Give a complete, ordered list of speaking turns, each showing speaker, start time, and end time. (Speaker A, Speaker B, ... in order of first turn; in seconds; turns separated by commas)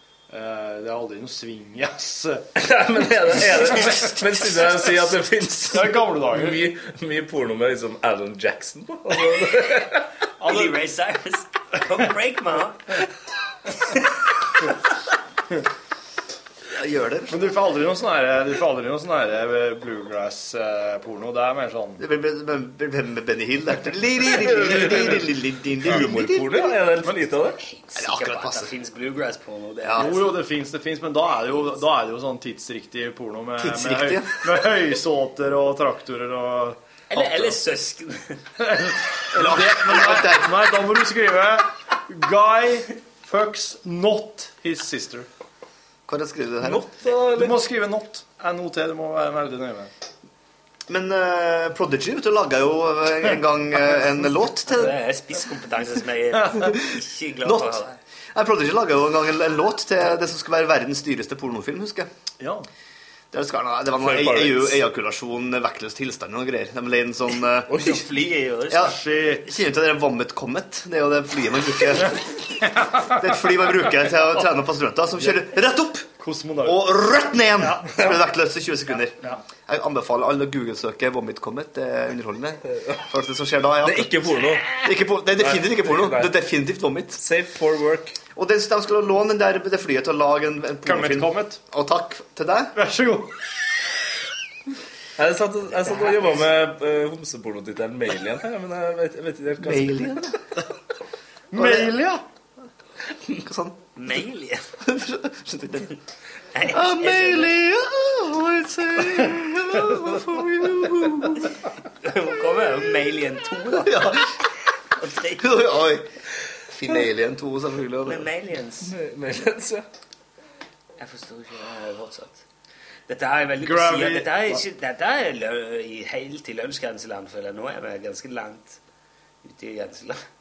Speaker A: 0.3-2.5, Speaker B: 2.5-10.1, Speaker A: 5.7-6.7, Speaker C: 10.4-13.0, Speaker A: 10.5-10.7, Speaker D: 16.7-17.4, Speaker A: 17.3-22.0, Speaker D: 22.0-26.9, Speaker B: 24.2-25.3, Speaker B: 25.8-27.6, Speaker C: 27.6-30.3, Speaker D: 27.9-28.7, Speaker D: 29.9-30.2, Speaker A: 30.0-37.5, Speaker D: 33.6-34.7, Speaker C: 37.1-38.4, Speaker A: 38.6-45.3, Speaker D: 39.3-40.8, Speaker D: 46.1-46.9, Speaker B: 46.6-47.6, Speaker A: 47.1-49.9, Speaker D: 50.9-55.0, Speaker C: 54.6-58.0, Speaker D: 56.7-57.8, Speaker D: 58.3-62.1, Speaker A: 62.4-62.7, Speaker D: 63.3-67.8, Speaker B: 64.0-64.9, Speaker B: 67.7-68.1, Speaker C: 67.7-68.9, Speaker D: 68.7-72.4, Speaker A: 68.8-69.5, Speaker D: 73.0-76.1, Speaker A: 76.2-77.0, Speaker D: 76.6-87.2, Speaker A: 77.6-77.9, Speaker B: 77.9-78.1, Speaker B: 82.7-83.0, Speaker B: 83.8-86.4, Speaker B: 87.1-88.2, Speaker D: 88.3-92.7, Speaker A: 90.8-91.6, Speaker A: 92.7-93.4, Speaker B: 95.2-100.3, Speaker D: 99.6-100.4, Speaker A: 101.5-102.2, Speaker D: 101.5-102.0, Speaker D: 103.3-103.8, Speaker C: 104.0-104.7, Speaker D: 104.8-105.9, Speaker C: 106.5-107.5, Speaker D: 106.6-111.5, Speaker C: 112.0-114.1, Speaker D: 113.7-114.4, Speaker C: 115.0-115.5, Speaker D: 115.4-116.1, Speaker D: 116.7-118.3, Speaker C: 118.0-118.9, Speaker B: 118.8-119.8, Speaker C: 121.0-122.4, Speaker C: 123.1-128.8, Speaker A: 123.6-124.6, Speaker C: 129.4-130.2